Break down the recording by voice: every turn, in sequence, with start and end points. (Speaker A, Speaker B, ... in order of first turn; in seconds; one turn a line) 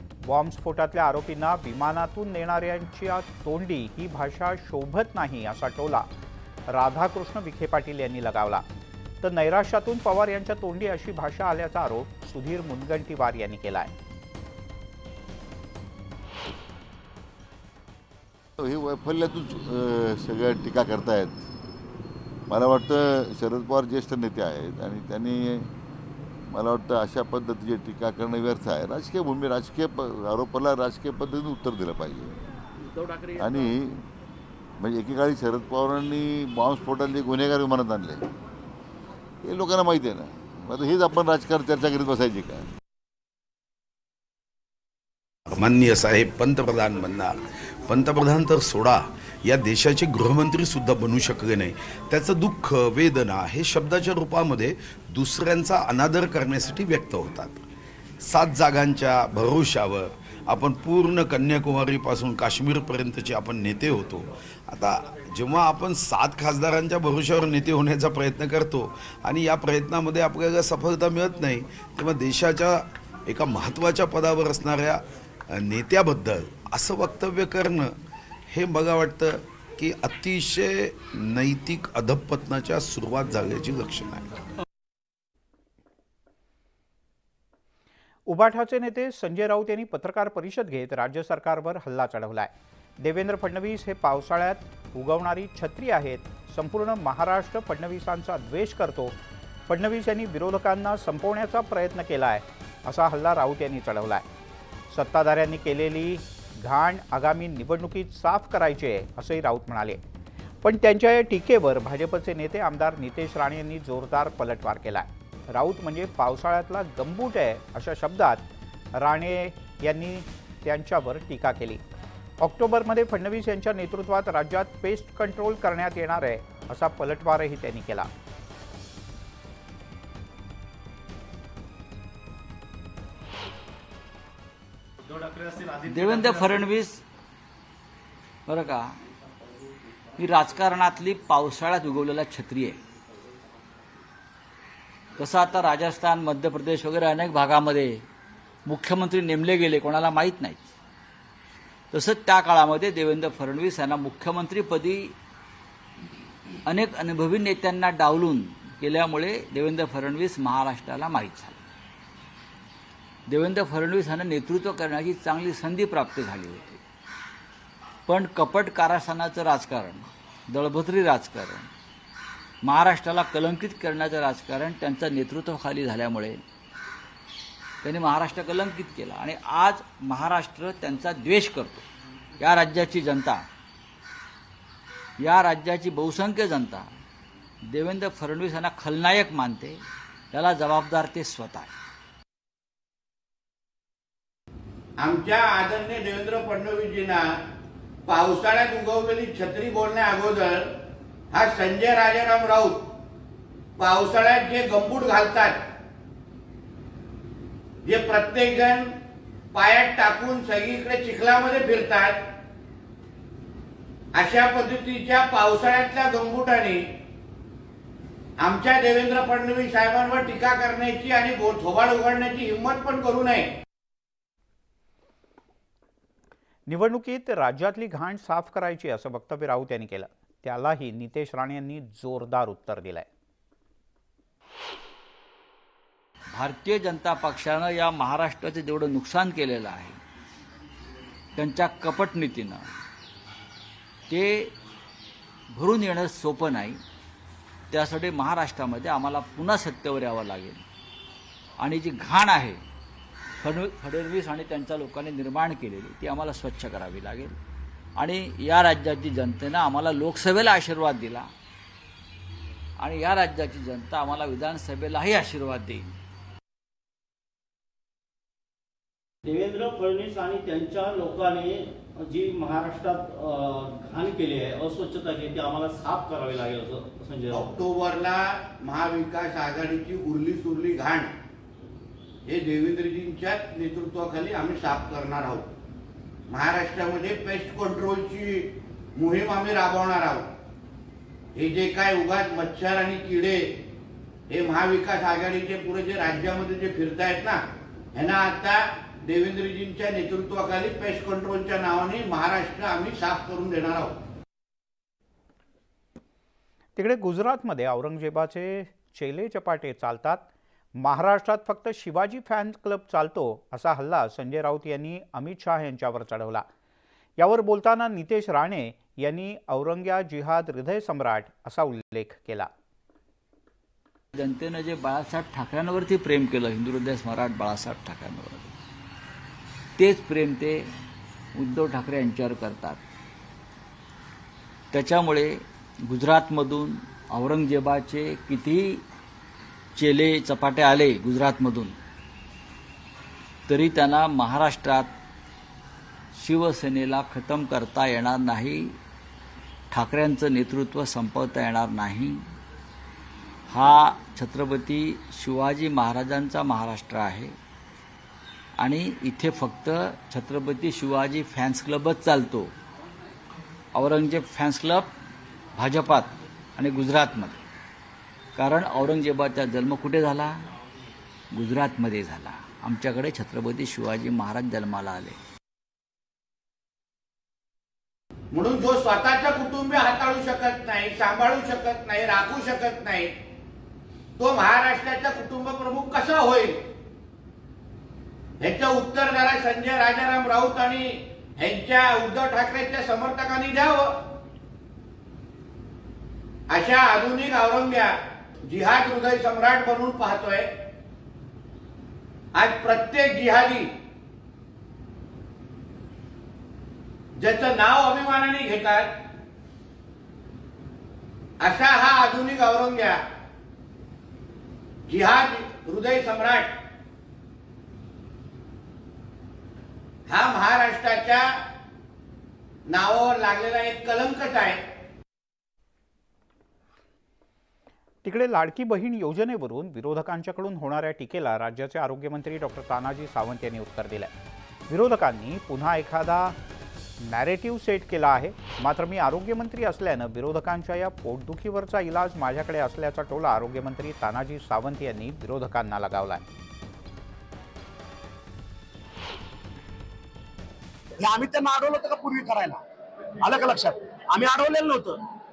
Speaker A: 0.2-6.1
Speaker A: 6.7-8.6
Speaker A: 9.2-13.9
Speaker B: 18.6-21.4
Speaker B: 22.5-25.7
Speaker B: 26.5-32.3
Speaker B: 33.3-34.0
Speaker B: 34.8-38.3
Speaker B: 39.4-42.7
Speaker C: 45.5-57.6
Speaker C: 58.2-77.9
Speaker C: 78.5-84.3
Speaker A: 88.3-99.2
Speaker A: 99.7-104.2
Speaker A: 104.9-110.0
Speaker A: 110.6-121.8
Speaker A: 122.4-128.1
Speaker D: 135.2-135.7
Speaker E: 135.7-136.2
Speaker F: 135.8-137.0
Speaker F: 138.5-138.9
Speaker F: 140.2-142.8
Speaker F: 145.2-148.0
Speaker F: 148.7-150.6
Speaker F: 151.9-155.2
Speaker F: 156.7-161.6
Speaker F: 163.3-166.8
Speaker F: 168.1-171.7
Speaker F: 172.6-176.4
Speaker F: 177.8-181.9
Speaker F: 182.4-183.4
Speaker F: 185.2-186.9
Speaker F: 187.7-191.7
Speaker G: 195.0-197.3
Speaker G: 198.1-200.7
Speaker G: 201.3-202.9
Speaker G: 203.8-205.6
Speaker G: 207.8-208.9
Speaker G: 209.5-212.2
Speaker G: 214.1-216.8
Speaker G: 218.4-223.5
Speaker A: 226.7-233.1
Speaker F: 236.3-240.0
Speaker F: 241.3-242.7
Speaker F: 244.1-244.5
Speaker F: 245.5-246.8
Speaker F: 247.7-250.6
Speaker F: 251.6-252.6
Speaker F: 253.4-257.4
Speaker F: 258.0-261.3
Speaker F: 262.8-265.9
Speaker D: 269.2-277.5
Speaker G: 277.3-281.1
Speaker G: 282.2-285.5
Speaker G: 286.3-290.3
Speaker G: 291.3-293.4
Speaker G: 294.3-297.4
Speaker G: 297.9-303.9
Speaker A: 306.8-310.3
Speaker A: 310.8-316.4
Speaker A: 317.2-322.5
Speaker F: 324.1-328.5
Speaker F: 329.8-330.7
Speaker F: 331.4-332.8
Speaker F: 334.7-338.8
Speaker F: 339.8-341.8
Speaker F: 343.5-344.9
Speaker F: 346.1-348.8
Speaker F: 349.7-352.2
Speaker F: 353.5-357.3
Speaker F: 358.6-362.5
Speaker F: 363.7-364.9
Speaker F: 365.6-367.4
Speaker F: 368.4-370.4
Speaker F: 371.3-375.2
Speaker G: 378.3-383.1
Speaker G: 384.2-386.6
Speaker G: 388.4-394.0
Speaker G: 396.5-397.9
Speaker G: 398.4-400.5
Speaker G: 402.3-403.7
Speaker G: 407.2-408.9
Speaker G: 411.4-413.0
Speaker G: 414.9-416.5
Speaker G: 420.1-421.3
Speaker G: 422.7-424.6
Speaker A: 428.0-434.1
Speaker A: 434.7-436.4
Speaker A: 437.0-446.2
Speaker E: 451.0-452.6
Speaker E: 453.2-455.0